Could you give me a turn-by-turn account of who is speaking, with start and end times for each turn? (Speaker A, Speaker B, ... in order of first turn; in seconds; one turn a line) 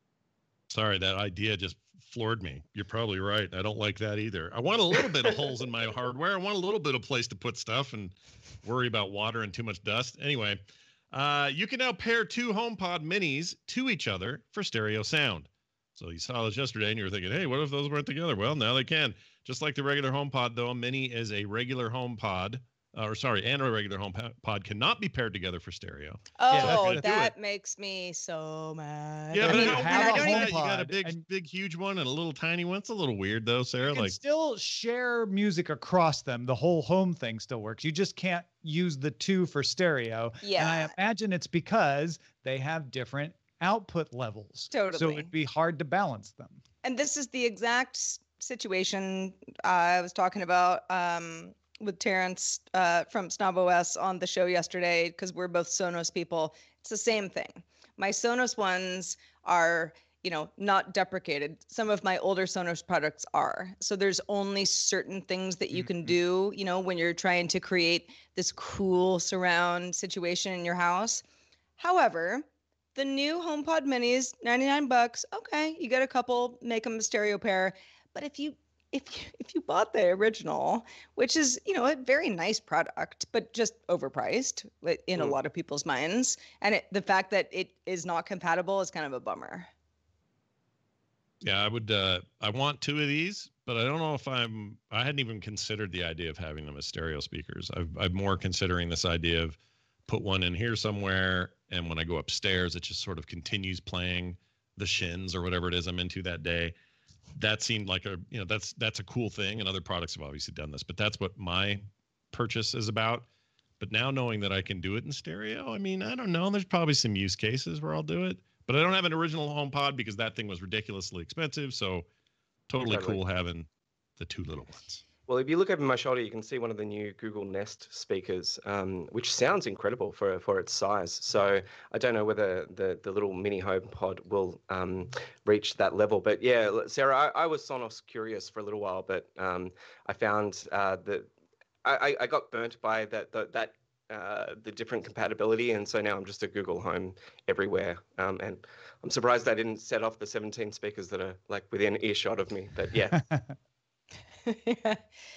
Speaker A: 0.7-27.3
Speaker B: 26.4-30.5
Speaker C: 26.5-27.1
Speaker A: 29.3-34.2
Speaker C: 29.4-31.2
Speaker C: 33.9-46.6
Speaker B: 40.4-40.9
Speaker B: 44.7-45.3
Speaker B: 46.8-71.2
Speaker C: 65.7-66.1
Speaker B: 71.8-89.7
Speaker A: 91.4-99.6
Speaker A: 100.1-106.8
Speaker A: 107.4-113.3
Speaker A: 113.8-122.1
Speaker A: 122.7-123.7
Speaker D: 122.9-123.2
Speaker A: 124.2-125.0
Speaker D: 125.3-141.3
Speaker D: 141.8-153.2
Speaker C: 153.1-153.5
Speaker B: 154.5-155.0